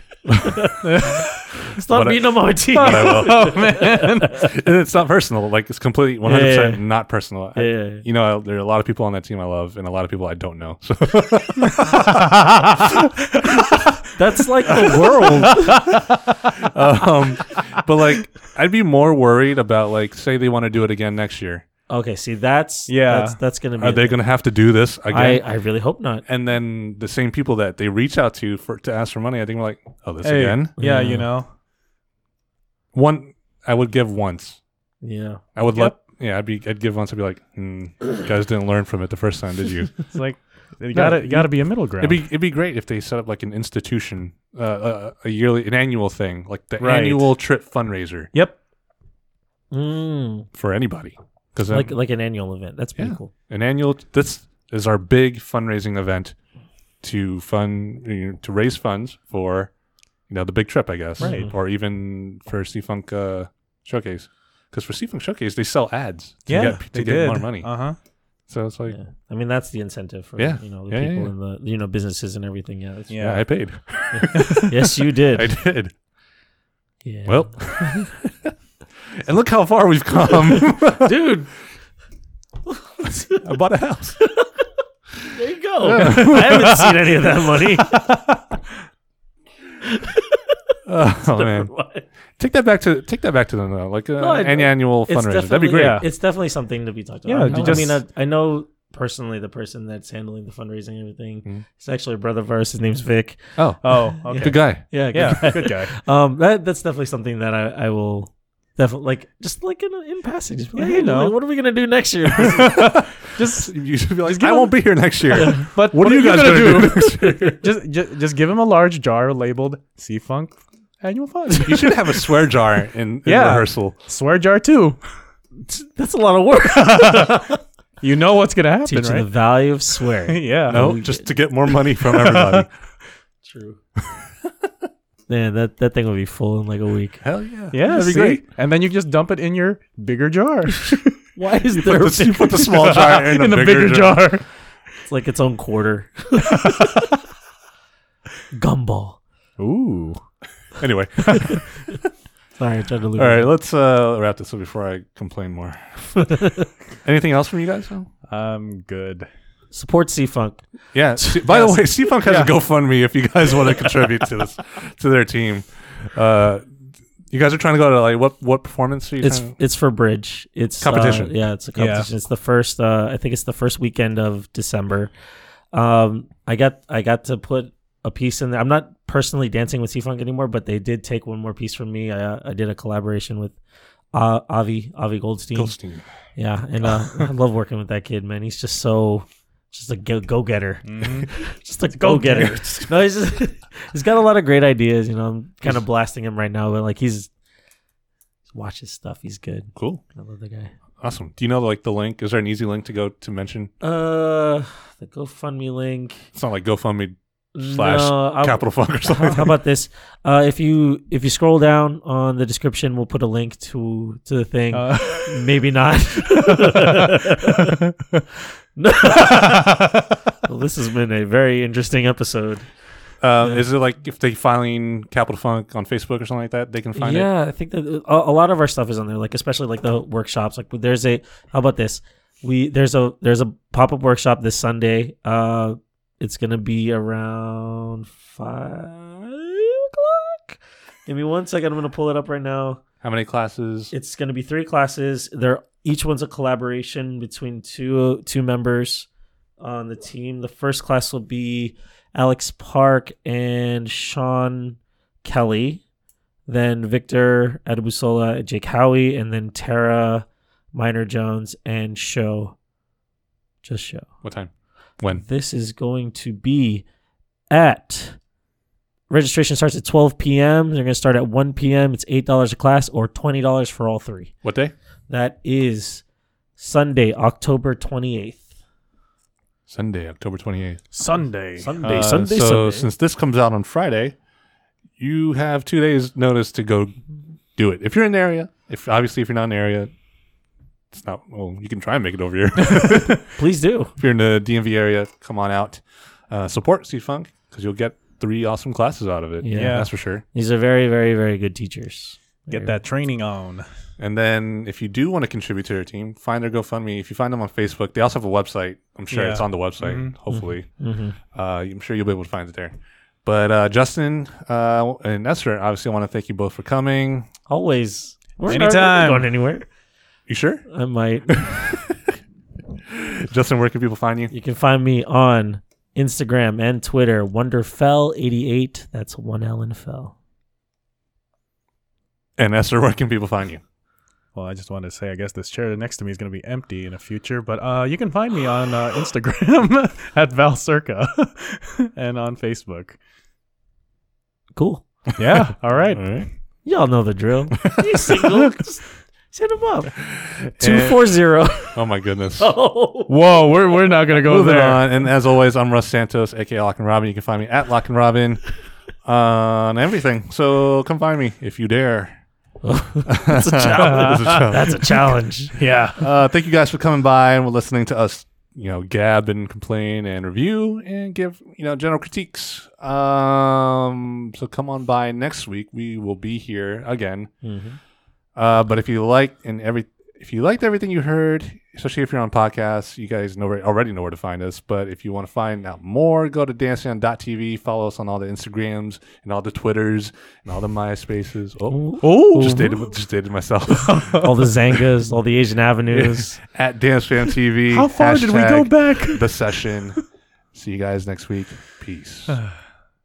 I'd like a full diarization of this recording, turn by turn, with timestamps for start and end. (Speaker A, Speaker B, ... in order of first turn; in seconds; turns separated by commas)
Speaker A: 0.2-0.7, Speaker B: 0.3-4.4, Speaker C: 0.8-1.7, Speaker A: 1.8-13.8, Speaker C: 2.7-4.5, Speaker B: 6.2-6.9, Speaker B: 7.5-8.0, Speaker B: 14.1-15.8, Speaker A: 14.8-15.9, Speaker C: 15.4-16.1, Speaker A: 16.6-21.6, Speaker B: 21.9-24.2, Speaker C: 22.9-23.4, Speaker A: 23.8-25.4, Speaker B: 25.1-26.2, Speaker A: 26.2-30.7, Speaker C: 30.2-31.5, Speaker B: 30.8-31.3, Speaker A: 32.9-34.6, Speaker B: 35.0-35.4, Speaker A: 35.5-40.1, Speaker C: 40.1-42.2, Speaker A: 40.9-48.3, Speaker C: 46.8-47.3, Speaker B: 49.7-50.5, Speaker A: 50.5-51.9, Speaker B: 51.7-53.3, Speaker A: 53.0-56.3, Speaker A: 57.0-59.7, Speaker A: 60.3-67.8, Speaker B: 61.2-61.5, Speaker C: 61.2-61.5, Speaker C: 66.5-68.0, Speaker B: 66.5-66.8, Speaker A: 68.5-69.0, Speaker B: 68.9-73.2, Speaker A: 70.4-71.3, Speaker C: 73.1-73.5, Speaker A: 73.2-74.8, Speaker B: 74.1-75.5, Speaker C: 74.3-74.6, Speaker A: 75.3-75.9, Speaker B: 77.0-78.3, Speaker A: 77.2-78.2, Speaker A: 79.2-81.1, Speaker B: 80.5-81.5, Speaker B: 82.7-83.5, Speaker A: 83.4-84.2, Speaker B: 84.2-84.5, Speaker B: 85.3-87.9, Speaker A: 85.8-86.9, Speaker C: 86.0-86.9, Speaker C: 87.9-88.4, Speaker B: 89.8-90.6, Speaker A: 90.8-91.7, Speaker B: 91.2-92.1, Speaker A: 92.4-96.0, Speaker B: 94.2-112.8, Speaker C: 95.7-96.0, Speaker C: 97.2-98.0, Speaker A: 97.5-97.9, Speaker A: 103.6-105.4, Speaker C: 103.8-105.9, Speaker C: 110.8-111.3, Speaker A: 112.4-117.4, Speaker C: 112.4-122.0, Speaker B: 116.8-117.6, Speaker A: 121.6-124.0, Speaker C: 123.2-125.0, Speaker B: 125.6-127.6, Speaker C: 126.8-127.3, Speaker C: 128.0-129.3, Speaker B: 128.8-131.2, Speaker C: 130.2-130.9, Speaker A: 130.7-132.7, Speaker C: 132.0-132.7, Speaker B: 133.4-133.8, Speaker B: 135.3-137.2, Speaker A: 137.2-138.4, Speaker C: 137.7-141.2, Speaker B: 140.9-142.9, Speaker A: 141.7-144.3, Speaker C: 142.6-144.4, Speaker B: 145.0-146.9, Speaker B: 148.5-149.2, Speaker C: 149.6-150.2, Speaker A: 150.8-152.0, Speaker B: 152.6-153.5, Speaker A: 153.2-156.3, Speaker B: 156.2-156.7, Speaker A: 157.0-158.1, Speaker C: 158.3-159.3, Speaker B: 159.7-160.7, Speaker A: 160.9-166.7, Speaker B: 161.2-161.7, Speaker C: 162.2-162.5, Speaker A: 167.3-169.5, Speaker B: 169.2-175.1, Speaker A: 170.8-171.3, Speaker C: 171.8-172.1, Speaker B: 175.7-183.6, Speaker B: 184.1-185.8, Speaker A: 185.5-186.1, Speaker B: 186.3-197.3, Speaker C: 190.8-191.3, Speaker C: 191.9-192.9, Speaker B: 198.5-200.7, Speaker A: 199.7-200.0, Speaker A: 201.0-203.7, Speaker B: 203.8-206.3, Speaker A: 206.3-209.5, Speaker B: 207.5-217.8, Speaker C: 214.7-215.6, Speaker C: 216.3-217.3, Speaker C: 217.9-218.2, Speaker B: 218.8-219.8, Speaker C: 219.2-219.9, Speaker B: 220.4-222.7, Speaker A: 223.2-227.3, Speaker B: 226.9-242.8, Speaker A: 243.0-243.9, Speaker B: 243.9-249.1, Speaker B: 249.6-255.8, Speaker B: 256.5-262.6, Speaker B: 263.6-264.1, Speaker A: 264.2-265.2, Speaker B: 265.1-266.9, Speaker B: 267.5-268.2, Speaker B: 269.1-274.3, Speaker A: 274.4-274.7, Speaker B: 275.1-276.0, Speaker B: 276.6-278.4, Speaker A: 279.7-280.9, Speaker C: 280.9-282.2, Speaker B: 281.6-282.9, Speaker A: 281.8-284.2, Speaker A: 285.0-286.9, Speaker A: 287.6-289.9, Speaker A: 290.9-293.2, Speaker B: 293.3-293.9, Speaker A: 294.0-300.2, Speaker B: 299.4-302.8, Speaker C: 299.5-299.9, Speaker C: 302.5-303.6, Speaker A: 304.0-310.7, Speaker C: 309.1-310.1, Speaker B: 310.3-311.2, Speaker A: 311.3-317.3, Speaker B: 317.5-319.7, Speaker C: 318.5-319.3, Speaker A: 320.3-320.6, Speaker B: 320.7-321.7, Speaker A: 321.3-321.9, Speaker A: 322.9-324.3, Speaker B: 324.3-330.1, Speaker A: 332.4-333.6, Speaker C: 334.3-343.0, Speaker B: 344.6-344.9, Speaker C: 345.2-346.1, Speaker A: 345.3-346.3, Speaker B: 346.6-350.0, Speaker A: 347.7-348.5, Speaker A: 350.1-351.1, Speaker B: 350.5-351.8, Speaker A: 351.7-352.5, Speaker B: 352.4-353.1, Speaker C: 353.1-354.8, Speaker A: 354.2-358.4, Speaker A: 359.0-362.2, Speaker B: 362.6-365.5, Speaker A: 363.1-365.1, Speaker C: 363.9-364.5, Speaker C: 365.6-366.0, Speaker A: 365.9-377.3, Speaker B: 377.4-377.8, Speaker A: 378.3-394.1, Speaker B: 391.7-392.0, Speaker C: 392.0-392.9, Speaker C: 393.7-394.4, Speaker B: 394.1-396.4, Speaker A: 395.9-400.0, Speaker C: 397.7-399.3, Speaker A: 400.5-402.4